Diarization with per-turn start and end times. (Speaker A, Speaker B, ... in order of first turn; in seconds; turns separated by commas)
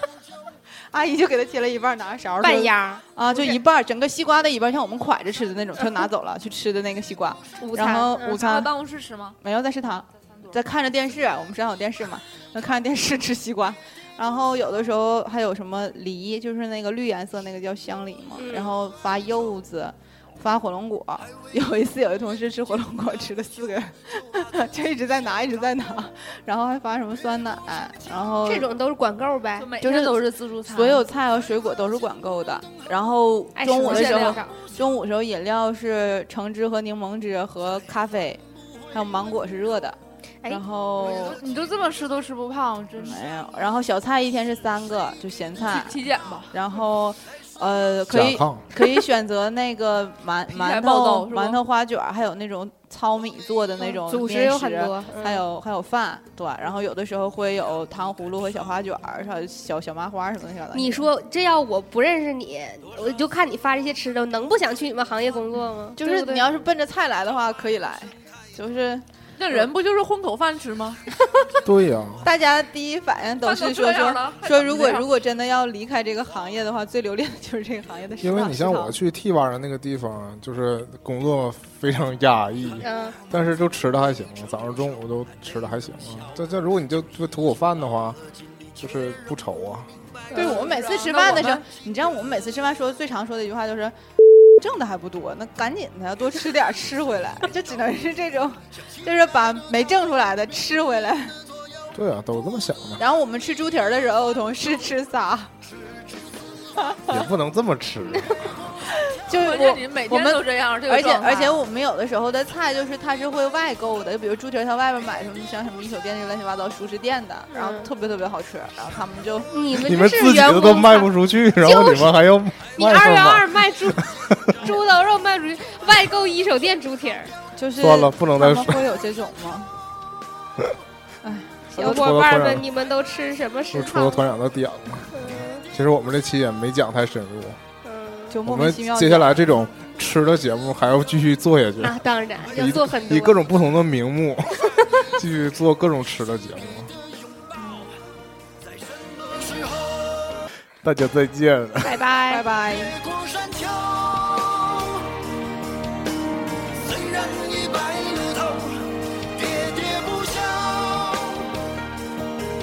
Speaker A: 0.9-8.7, Speaker B: 2.4-3.6, Speaker B: 7.6-8.4, Speaker C: 8.2-9.4, Speaker A: 9.4-28.7, Speaker B: 18.4-18.8, Speaker B: 28.4-29.7, Speaker C: 29.6-31.0, Speaker A: 29.8-41.4, Speaker B: 33.5-34.6, Speaker C: 33.8-34.4, Speaker C: 41.0-43.2, Speaker A: 43.0-46.0, Speaker C: 45.6-46.6, Speaker A: 46.5-61.1, Speaker D: 48.1-48.6, Speaker C: 50.5-51.6, Speaker B: 53.8-55.4, Speaker B: 60.7-66.4, Speaker A: 66.0-69.7, Speaker C: 69.4-71.0, Speaker D: 71.6-72.3, Speaker A: 72.2-79.0, Speaker C: 73.4-75.1, Speaker D: 78.2-88.2, Speaker B: 82.8-83.2, Speaker D: 88.8-90.0, Speaker B: 90.3-90.8, Speaker A: 90.3-93.9, Speaker C: 90.3-91.6, Speaker A: 94.6-101.4, Speaker D: 101.9-103.0, Speaker A: 103.0-105.5, Speaker A: 106.8-107.3, Speaker D: 107.1-108.5, Speaker A: 109.1-119.5, Speaker C: 109.2-111.7, Speaker B: 117.5-117.9, Speaker B: 119.5-127.3, Speaker D: 119.7-124.6, Speaker A: 127.5-129.7, Speaker D: 127.8-128.8, Speaker A: 131.2-132.0, Speaker B: 131.7-134.3, Speaker D: 131.8-132.7, Speaker D: 133.7-137.6, Speaker B: 135.1-135.6, Speaker B: 137.8-138.4, Speaker A: 138.3-139.4, Speaker D: 138.4-146.9, Speaker B: 141.8-143.4, Speaker A: 147.6-147.9, Speaker E: 149.1-150.2, Speaker D: 150.8-152.0, Speaker B: 151.8-152.4, Speaker A: 152.3-153.0, Speaker E: 152.7-155.1, Speaker E: 156.8-161.4